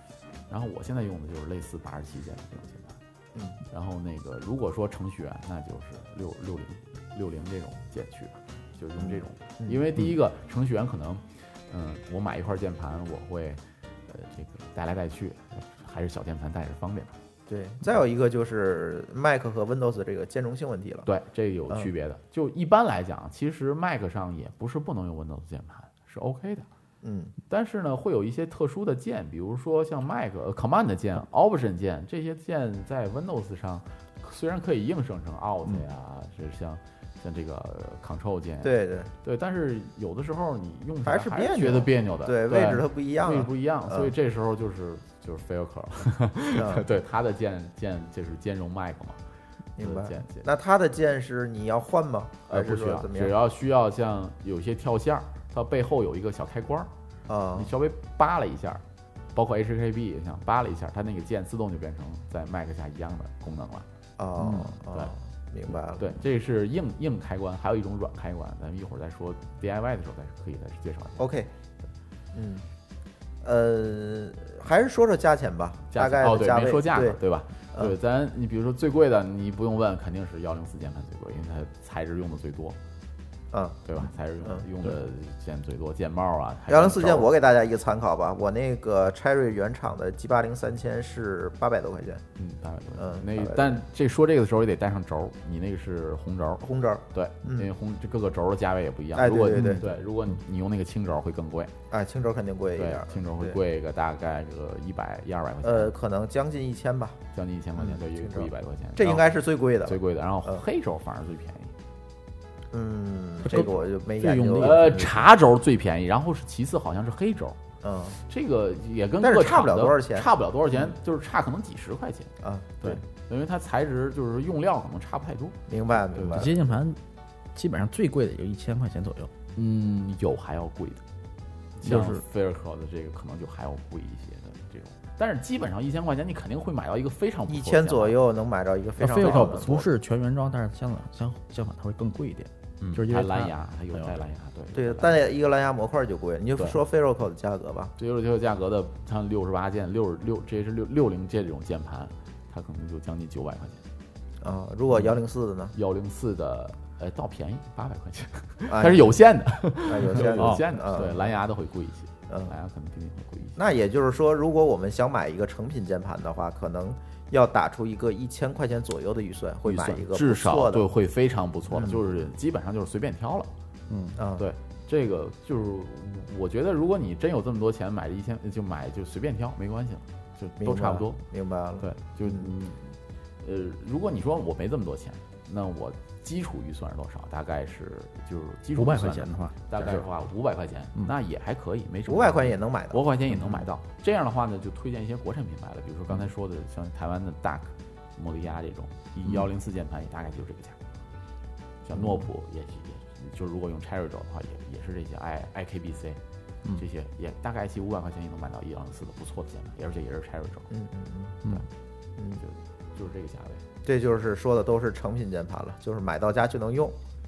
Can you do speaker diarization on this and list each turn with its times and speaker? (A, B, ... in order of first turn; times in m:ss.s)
0:00.5-0:03.0 A
0:03.3-0:03.6 B
0:03.7-0:17.2 A
0:09.0-0:09.9 B
0:17.5-0:21.1 B
0:21.0-0:26.6 A
0:27.0-0:27.3 B
0:27.5-0:49.2 A
0:38.6-0:39.1 B
0:41.0-0:44.1 B
0:46.5-0:46.9 B
0:49.8-0:53.3 B
0:49.8-0:50.5 A
0:52.5-0:56.9 A
0:57.3-0:57.7 B
0:57.6-0:58.8 A
0:59.3-1:03.9 A
1:04.2-1:06.2 B
1:04.4-1:04.7 C
1:06.0-1:11.3 A
1:11.2-1:11.5 B
1:12.3-1:12.7 B
1:13.4-1:17.2 B
1:15.9-1:22.8 A
1:23.5-1:24.6 B
1:23.8-1:27.3 A
1:26.7-1:32.2 B
1:32.4-1:41.7 A
1:33.0-1:33.8 B
1:36.6-1:37.7 B
1:39.1-1:39.8 B
1:41.9-1:43.6 B
1:42.8-1:45.9 A
1:45.6-1:47.2 B
1:47.3-1:49.3 A
1:47.8-1:50.6 B
1:49.8-1:51.7 A
1:52.7-1:55.2 B
1:53.4-1:55.0 C
1:54.6-1:57.6 A
1:57.8-1:58.2 B
1:58.3-2:02.3 A
1:59.2-2:00.9 B
2:02.4-2:03.0 B
2:02.8-2:05.6 A
2:05.7-2:06.5 B
2:06.1-2:06.5 A
2:06.3-2:07.0 C
2:07.5-2:09.3 C
2:09.5-2:11.0 A
2:11.8-2:18.2 A
2:11.8-2:12.2 C
2:17.5-2:19.9 B
2:19.0-2:24.2 C
2:19.2-2:19.7 A
2:22.8-2:25.2 A
2:24.7-2:27.9 B
2:28.0-2:33.8 A
2:34.4-2:35.7 B
2:35.7-2:43.6 A
2:38.7-2:39.1 B
2:39.8-2:41.2 B
2:42.3-2:42.5 B
2:43.6-2:50.8 B
2:49.6-2:53.5 A
2:51.7-2:52.0 B
2:53.9-2:54.2 C
2:54.2-2:54.5 B
2:54.4-3:01.2 A
3:00.6-3:02.5 B
3:01.8-3:20.8 A
3:08.7-3:10.0 C
3:12.1-3:13.6 B
3:21.8-3:26.2 A
3:21.9-3:22.3 B
3:26.8-3:30.7 A
3:30.7-3:31.4 B
3:32.4-3:33.6 A
3:33.8-3:37.0 B